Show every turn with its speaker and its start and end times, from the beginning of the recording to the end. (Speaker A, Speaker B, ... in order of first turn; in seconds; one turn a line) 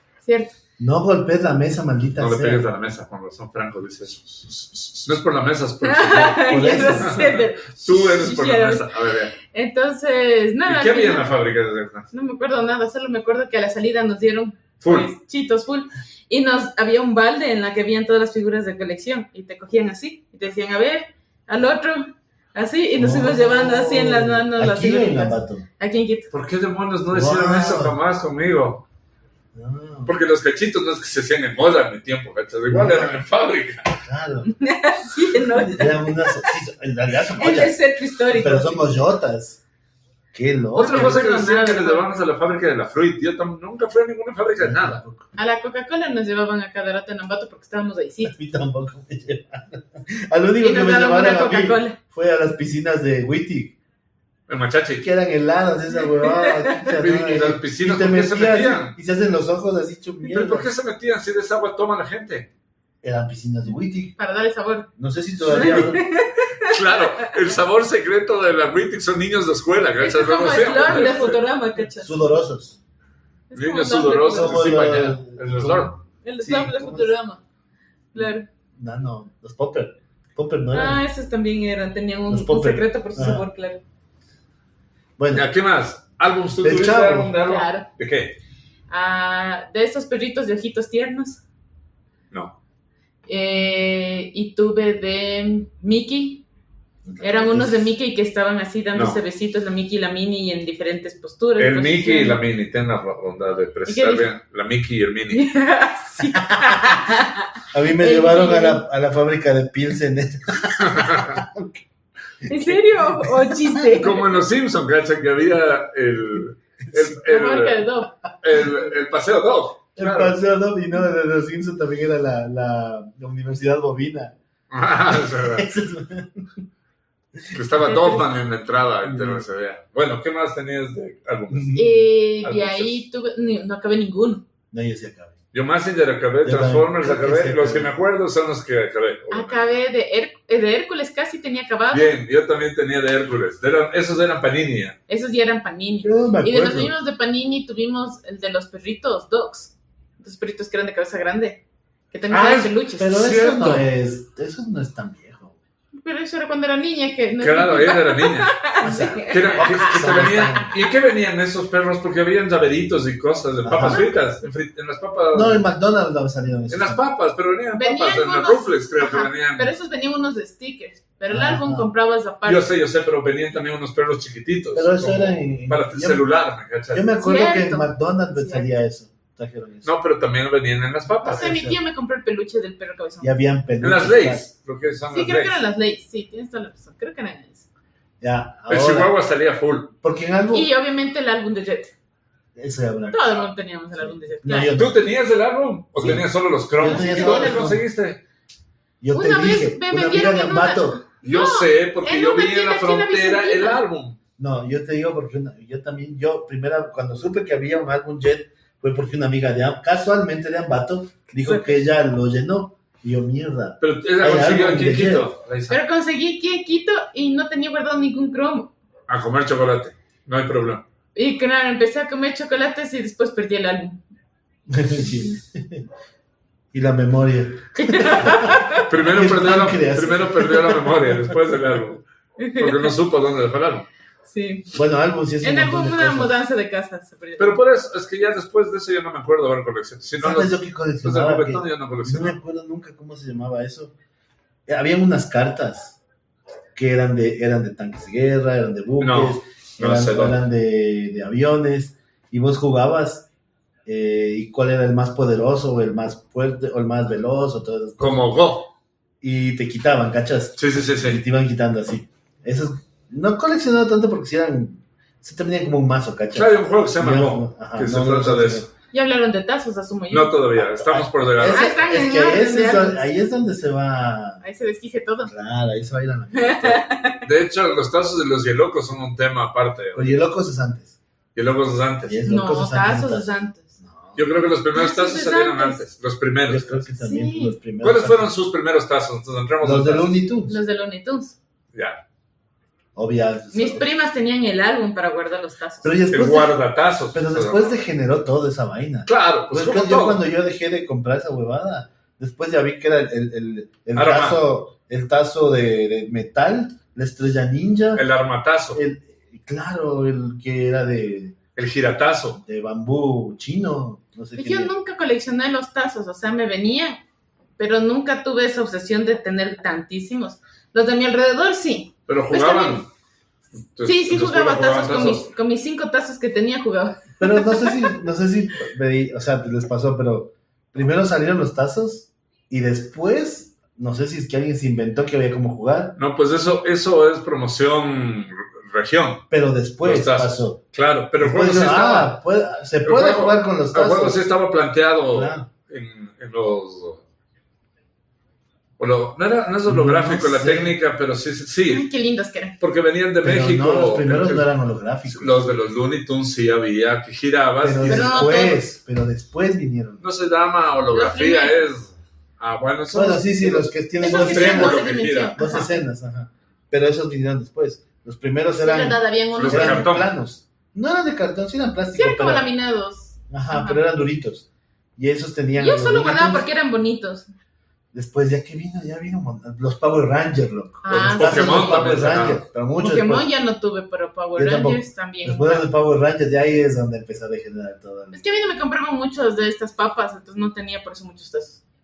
Speaker A: 0.2-0.5
Speaker B: 0.8-2.6
Speaker C: 2.2-9.3
Speaker A: 5.8-11.3
Speaker B: 6.5-7.3
Speaker C: 10.7-12.1
Speaker A: 12.1-26.3
Speaker C: 14.8-15.1
Speaker B: 22.9-25.6
Speaker C: 26.3-28.8
Speaker B: 27.1-28.0
Speaker B: 29.5-30.1
Speaker C: 30.1-34.0
Speaker B: 32.7-33.1
Speaker B: 34.0-34.5
Speaker A: 34.5-36.5
Speaker B: 35.6-37.8
Speaker A: 37.4-38.9
Speaker B: 38.3-39.6
Speaker B: 40.3-41.2
Speaker A: 40.8-42.1
Speaker C: 40.8-45.0
Speaker B: 44.6-45.3
Speaker A: 45.4-48.3
Speaker B: 48.2-53.8
Speaker A: 50.6-52.0
Speaker C: 54.5-55.1
Speaker B: 55.0-60.7
Speaker A: 56.1-56.9
Speaker C: 57.0-59.0
Speaker C: 60.2-62.5
Speaker B: 63.0-64.2
Speaker A: 64.2-64.9
Speaker B: 65.0-66.0
Speaker C: 65.5-66.0
Speaker A: 65.5-67.5
Speaker C: 66.6-71.4
Speaker A: 70.0-72.4
Speaker B: 71.9-72.8
Speaker A: 73.5-74.7
Speaker C: 73.5-76.0
Speaker B: 74.3-77.1
Speaker A: 76.2-77.4
Speaker A: 78.1-78.5
Speaker B: 78.2-81.0
Speaker A: 80.7-83.8
Speaker B: 82.3-83.5
Speaker B: 85.2-85.5
Speaker C: 85.3-88.4
Speaker B: 86.6-87.3
Speaker A: 87.4-87.9
Speaker A: 88.9-91.4
Speaker A: 93.3-96.5
Speaker B: 97.1-97.9
Speaker A: 97.2-102.4
Speaker C: 99.0-99.2
Speaker C: 101.6-105.5
Speaker A: 103.9-104.3
Speaker A: 105.3-108.8
Speaker B: 107.7-111.8
Speaker C: 110.8-111.4
Speaker B: 112.5-112.8
Speaker A: 112.5-114.3
Speaker B: 113.7-113.9
Speaker C: 113.9-117.9
Speaker A: 117.2-118.1
Speaker C: 118.4-120.4
Speaker B: 120.0-124.3
Speaker C: 124.7-125.7
Speaker B: 125.1-126.5
Speaker C: 127.5-131.9
Speaker A: 127.8-128.2
Speaker B: 129.0-129.4
Speaker B: 131.5-131.9
Speaker A: 131.8-134.4
Speaker C: 132.4-133.0
Speaker B: 134.7-135.3
Speaker C: 135.5-139.7
Speaker B: 136.4-137.9
Speaker A: 139.3-142.2
Speaker C: 141.9-145.0
Speaker A: 145.1-153.2
Speaker B: 146.0-146.9
Speaker C: 152.3-153.9
Speaker B: 153.0-155.6
Speaker A: 155.9-160.8
Speaker C: 157.4-165.7
Speaker B: 158.8-160.7
Speaker B: 163.6-164.1
Speaker A: 163.8-164.2
Speaker B: 165.3-167.0
Speaker C: 166.7-169.8
Speaker A: 167.8-172.7
Speaker B: 171.3-171.9
Speaker C: 172.4-177.1
Speaker B: 174.8-176.2
Speaker B: 176.9-179.9
Speaker A: 177.2-178.7
Speaker C: 179.8-181.5
Speaker B: 181.2-181.8
Speaker A: 181.2-183.3
Speaker B: 183.2-184.5
Speaker C: 183.8-185.6
Speaker A: 185.1-187.7
Speaker B: 188.2-189.1
Speaker C: 188.7-189.9
Speaker B: 190.0-190.7
Speaker A: 190.5-191.9
Speaker B: 192.6-193.4
Speaker A: 193.1-194.7
Speaker B: 194.0-195.0
Speaker C: 194.8-198.2
Speaker B: 196.0-197.8
Speaker A: 196.8-197.8
Speaker B: 199.0-201.0
Speaker A: 199.1-203.8
Speaker C: 201.2-204.2
Speaker B: 204.4-215.3
Speaker A: 211.4-211.8
Speaker C: 213.8-215.8
Speaker A: 215.7-218.7
Speaker C: 219.1-220.8
Speaker A: 221.1-224.0
Speaker B: 224.7-225.9
Speaker B: 226.7-231.1
Speaker A: 227.8-228.9
Speaker C: 228.9-232.0
Speaker A: 232.4-232.9
Speaker C: 232.6-233.9
Speaker A: 234.3-234.8
Speaker B: 234.8-236.4
Speaker A: 235.4-237.6
Speaker C: 237.4-242.4
Speaker B: 240.2-243.9
Speaker B: 244.7-246.0
Speaker B: 246.8-253.3
Speaker C: 249.0-250.4
Speaker B: 253.9-258.2
Speaker C: 258.0-258.7
Speaker B: 259.2-268.7
Speaker C: 260.6-261.2
Speaker C: 266.3-268.6
Speaker A: 268.9-270.4
Speaker C: 270.1-271.8
Speaker B: 270.6-274.4
Speaker A: 271.5-273.1
Speaker A: 274.4-275.3
Speaker B: 275.2-276.9
Speaker A: 276.3-277.3
Speaker C: 277.2-280.2
Speaker B: 279.9-281.0
Speaker C: 281.4-282.2
Speaker B: 282.1-284.3
Speaker A: 282.3-283.7
Speaker C: 284.1-286.8
Speaker A: 284.7-285.8
Speaker B: 286.5-288.3
Speaker A: 287.0-287.6
Speaker C: 287.8-290.2
Speaker B: 289.6-290.6
Speaker A: 290.5-291.4
Speaker C: 291.7-292.0
Speaker B: 293.0-293.9
Speaker A: 293.5-296.0
Speaker B: 295.8-296.6
Speaker C: 296.1-297.7
Speaker B: 297.1-308.0
Speaker C: 299.1-300.2
Speaker C: 303.9-304.4
Speaker C: 308.0-308.8
Speaker B: 308.7-311.4
Speaker C: 311.6-312.4
Speaker B: 312.4-314.7
Speaker A: 314.4-317.0
Speaker A: 317.6-322.9
Speaker C: 322.1-322.9
Speaker C: 323.6-325.3
Speaker A: 323.9-327.9
Speaker B: 327.2-336.0
Speaker C: 336.0-339.3
Speaker B: 339.3-340.6
Speaker C: 339.8-342.1
Speaker B: 341.2-344.2
Speaker C: 342.8-347.0
Speaker B: 345.1-345.5
Speaker C: 348.8-351.9
Speaker B: 349.6-350.8
Speaker A: 351.7-352.6
Speaker C: 352.6-354.5
Speaker B: 353.2-355.4
Speaker C: 355.1-358.3
Speaker B: 357.6-360.0
Speaker A: 357.9-358.6
Speaker C: 360.0-365.4
Speaker A: 360.9-361.6
Speaker B: 362.9-372.5
Speaker A: 364.0-365.7
Speaker A: 368.6-369.9
Speaker C: 369.4-370.1
Speaker A: 371.9-373.8
Speaker B: 373.3-374.5
Speaker B: 375.0-376.5
Speaker A: 375.6-377.3
Speaker B: 377.9-383.3
Speaker A: 380.8-381.9
Speaker C: 380.9-382.4
Speaker A: 382.8-385.7
Speaker B: 384.4-388.2
Speaker A: 388.1-391.6